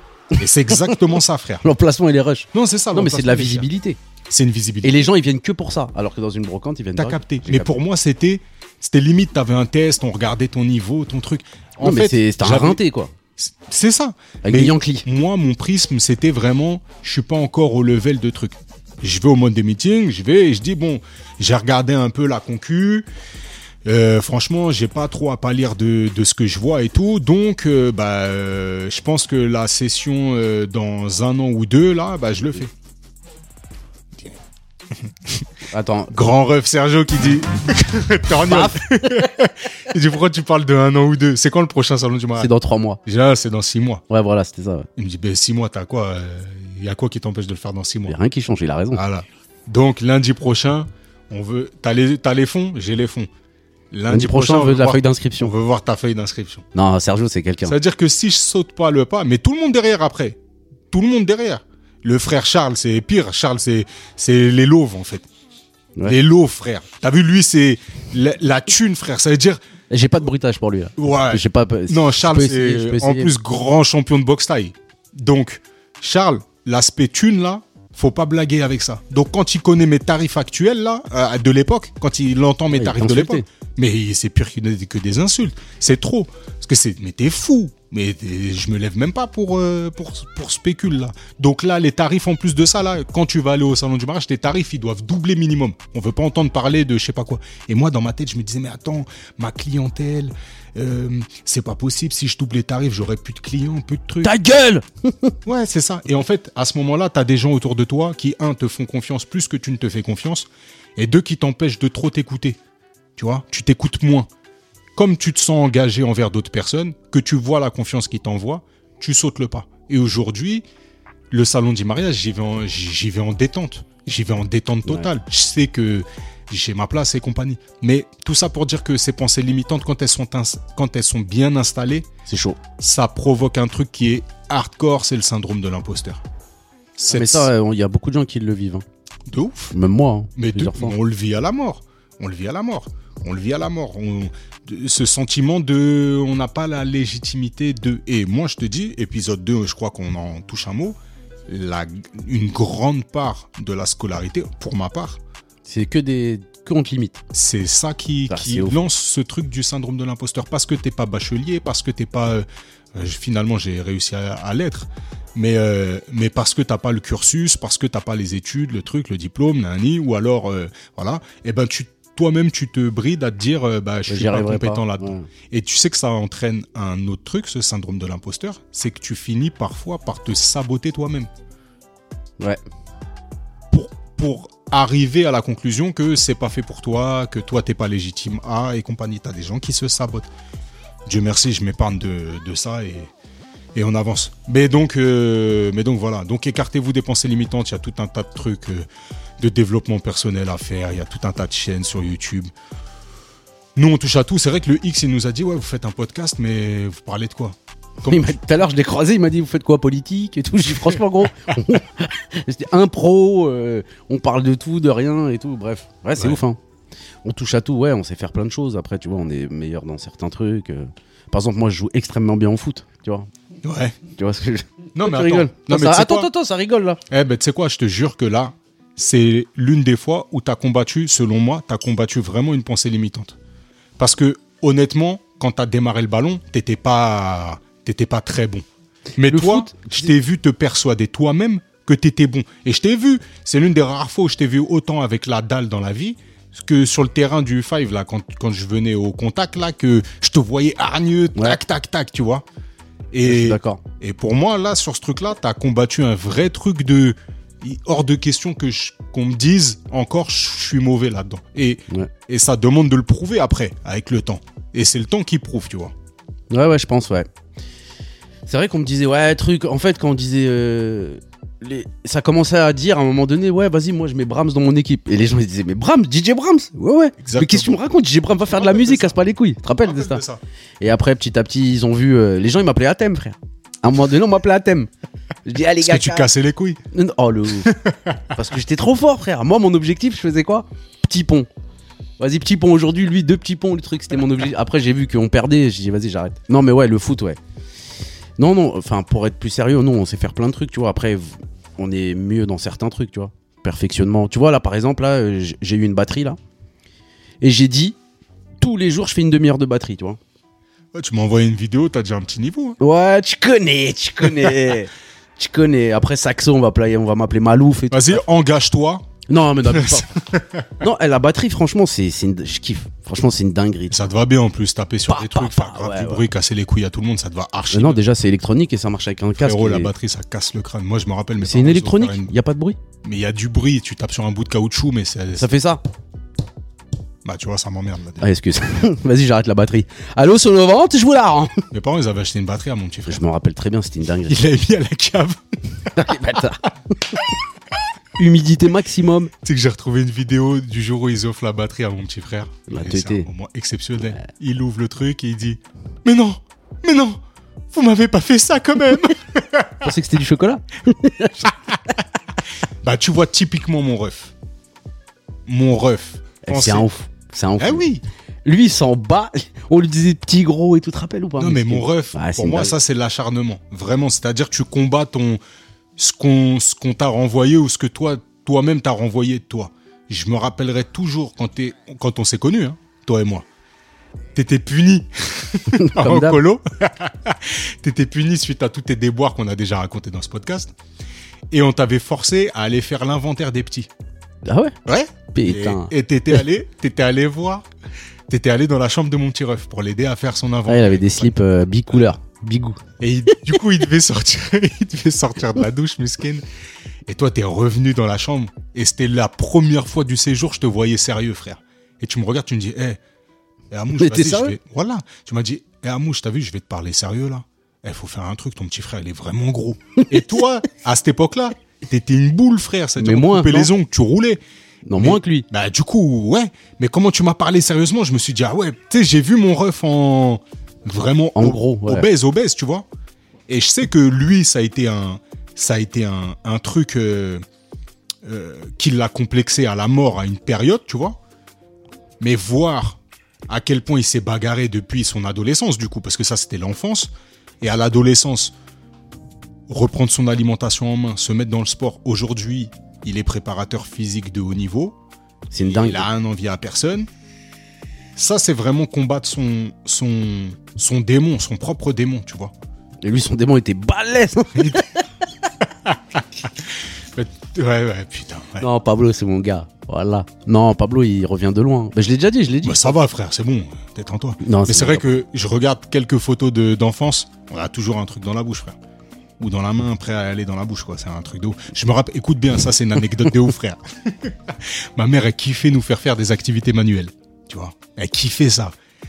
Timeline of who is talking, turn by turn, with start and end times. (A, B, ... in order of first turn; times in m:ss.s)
0:00.4-0:01.6 A
0:01.6-0:04.0 B
0:02.5-0:03.7 A
0:04.3-0:05.1 A
0:04.8-0:07.7 B
0:07.0-0:12.8 A
0:11.8-0:13.1 B
0:13.4-0:23.1 A
0:14.4-0:15.0 B
0:23.8-0:32.7 A
0:35.0-0:35.5 A
0:35.7-0:36.2 B
0:36.1-0:42.5 A
0:38.5-0:39.2 B
0:42.4-0:43.0 B
0:43.0-0:44.0 A
0:44.1-0:44.9 B
0:45.0-0:48.2 A
0:48.0-0:49.0 B
0:48.9-0:53.3 A
0:53.9-0:56.6 A
0:54.1-0:55.5 B
0:56.7-0:57.8 B
0:57.6-1:00.4 A
1:00.9-1:05.3 A
1:06.0-1:09.6 A
1:09.9-1:13.3 B
1:11.0-1:44.4 A
1:22.7-1:23.4 B
1:44.2-1:45.4 B
1:45.4-1:52.6 A
1:53.2-1:54.3 A
1:55.0-2:00.6 A
2:01.3-2:12.1 A
2:12.3-2:12.6 B
2:12.8-2:16.2 A
2:17.0-2:17.5 A
2:17.1-2:18.8 B
2:19.3-2:19.7 A
2:19.7-2:21.0 B
2:20.4-2:35.2 A
2:35.7-2:37.2 B
2:37.3-3:01.3 A
2:38.3-2:38.8 B
2:54.1-2:55.3 B
3:03.7-3:10.3 A
3:11.0-3:13.1 A
3:13.7-3:18.8 A
3:19.4-3:22.5 A
3:23.7-3:28.4 A
3:28.0-3:36.6 B
3:37.2-3:43.3 B
3:43.6-3:44.0 A
3:44.2-3:47.0 B
3:44.9-3:46.3 A
3:47.1-3:53.4 A
3:54.0-3:58.6 A
3:59.2-4:12.4 A
3:59.3-3:59.9 B
4:13.1-4:25.9 A
4:13.2-4:13.8 B
4:26.5-4:27.3 B
4:28.5-4:40.2 B
4:37.2-4:37.8 A
4:38.5-4:39.3 A
4:39.8-4:40.4 A
4:40.8-4:44.9 B
4:45.4-4:46.3 B
4:45.8-4:46.8 A
4:46.9-4:47.8 B
4:47.6-4:48.1 A
4:48.3-4:51.5 B
4:52.2-4:57.4 B
4:58.4-5:06.4 B
5:07.4-5:08.0 B
5:08.6-5:10.2 B
5:10.9-5:12.8 A
5:12.8-5:18.2 B
5:17.9-5:19.1 A
5:19.3-5:20.2 B
5:19.7-5:20.7 A
5:20.8-5:24.1 B
5:23.9-5:28.0 A
5:25.1-5:26.2 B
5:27.7-5:29.9 B
5:29.4-5:32.3 A
5:31.4-5:32.8 B
5:33.0-5:35.5 A
5:35.4-5:35.8 B
5:37.2-5:38.2 A
5:38.2-5:41.6 B
5:41.7-5:43.2 A
5:43.1-5:44.4 B
5:44.3-5:46.4 A
5:45.9-5:47.2 B
5:48.2-5:49.3 B
5:49.4-5:57.2 A
5:52.7-5:53.3 B
5:57.7-5:59.9 A
5:59.8-6:01.5 B
6:01.4-6:01.8 A
6:02.8-6:04.3 A
6:05.4-6:06.9 A
6:06.4-6:07.8 B
6:07.6-6:08.0 A
6:08.4-6:12.8 B
6:11.4-6:15.4 A
6:16.0-6:23.4 A
6:24.3-6:30.7 A
6:25.7-6:26.4 B
6:31.5-6:33.9 A
6:34.4-6:34.8 B
6:34.8-6:37.7 A
6:35.3-6:35.9 B
6:38.3-6:41.3 A
6:40.7-6:42.8 B
6:43.0-6:46.4 A
6:47.0-6:53.0 A
6:53.7-7:04.4 A
6:54.0-6:54.5 B
7:03.0-7:03.7 B
7:04.9-7:05.4 B
7:05.0-7:12.9 A
7:11.4-7:12.0 B
7:13.5-7:17.4 A
7:18.2-7:21.2 A
7:22.2-7:28.5 A
7:29.7-7:35.0 A
7:35.5-7:36.1 B
7:35.6-7:37.1 A
7:38.2-7:42.5 A
7:43.0-7:45.0 B
7:44.6-7:44.8 A
7:45.8-7:48.6 A
7:48.6-7:53.0 B
7:52.6-7:58.8 A
7:54.4-7:55.0 B
7:59.4-8:08.7 A